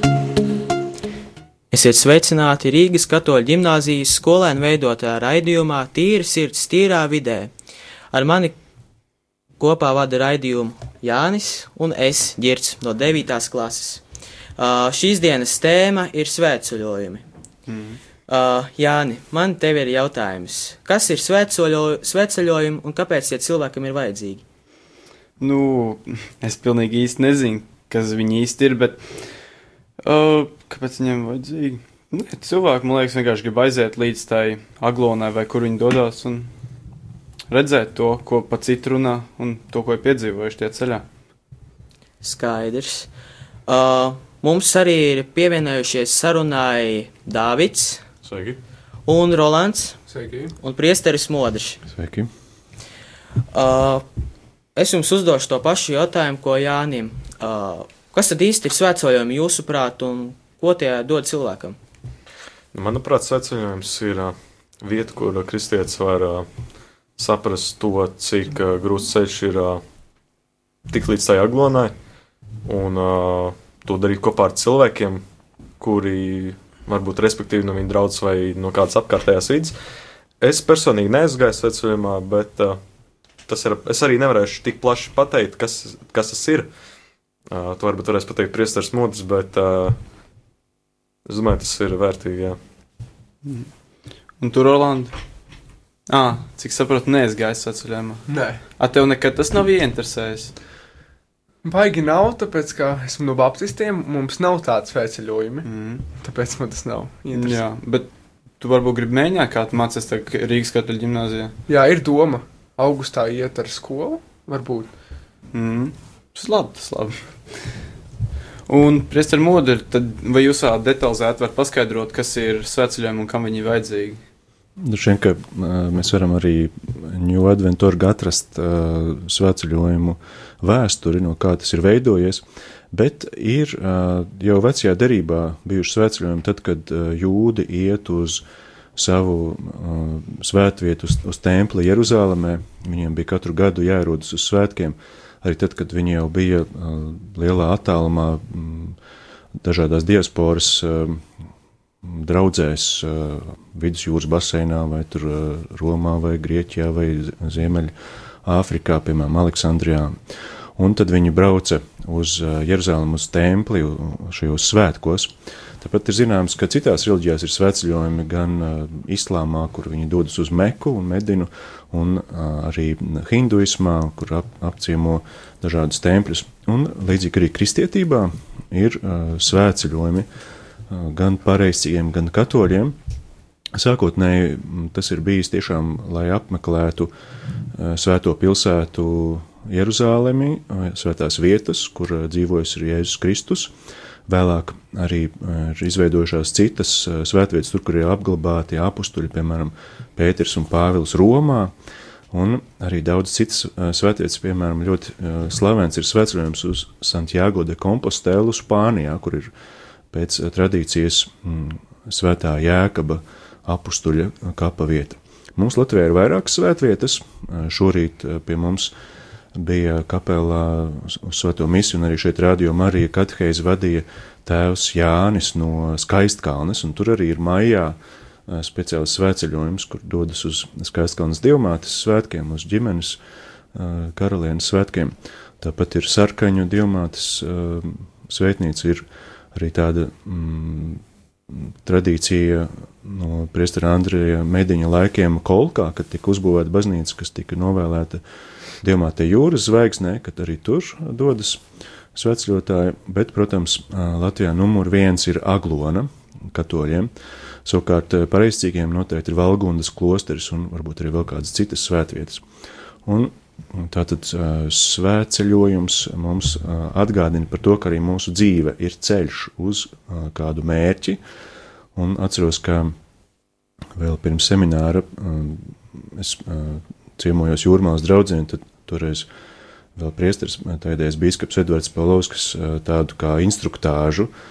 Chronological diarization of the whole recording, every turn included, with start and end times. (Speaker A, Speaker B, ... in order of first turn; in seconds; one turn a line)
Speaker A: 1.7-7.5
Speaker A: 8.1-8.6
Speaker A: 9.6-14.0
Speaker A: 14.6-17.2
Speaker B: 17.7-18.0
Speaker A: 18.3-24.4
Speaker B: 25.4-29.3
Speaker B: 30.0-36.5
Speaker B: 37.5-41.0
Speaker A: 42.2-43.1
Speaker A: 43.7-48.0
Speaker C: 48.2-48.6
Speaker A: 49.1-50.0
Speaker D: 50.1-50.5
Speaker A: 50.6-51.8
Speaker E: 51.9-52.3
Speaker A: 53.5-54.0
Speaker A: 54.8-61.8
Speaker C: 62.7-66.5
Speaker C: 67.2-69.8
Speaker C: 70.9-71.9
Speaker C: 72.7-75.2
Speaker C: 75.8-79.7
Speaker C: 80.4-82.8
Speaker C: 83.5-86.7
Speaker C: 87.5-90.0
Speaker C: 91.3-92.6
Speaker B: 93.4-93.7
Speaker B: 94.4-95.1
Speaker B: 96.1-100.5
Speaker D: 98.3-98.7
Speaker D: 101.6-107.6
Speaker B: 105.7-106.1
Speaker B: 107.3-111.5
Speaker D: 111.7-114.9
Speaker B: 115.5-117.7
Speaker B: 118.7-124.2
Speaker E: 124.8-138.4
Speaker E: 138.9-149.0
Speaker E: 149.6-151.3
Speaker E: 152.0-157.9
Speaker E: 158.4-160.2
Speaker E: 160.8-180.3
Speaker E: 180.9-183.0
Speaker E: 183.7-187.1
Speaker E: 187.7-193.7
Speaker E: 194.3-201.7
Speaker E: 202.3-209.5
Speaker E: 210.1-218.9
Speaker E: 219.6-233.2
Speaker E: 233.7-248.2
Speaker E: 248.8-251.6
Speaker E: 252.1-257.1
Speaker E: 257.6-262.4
Speaker E: 263.1-271.2
Speaker E: 271.9-273.0
Speaker E: 274.0-279.3
Speaker E: 280.0-284.3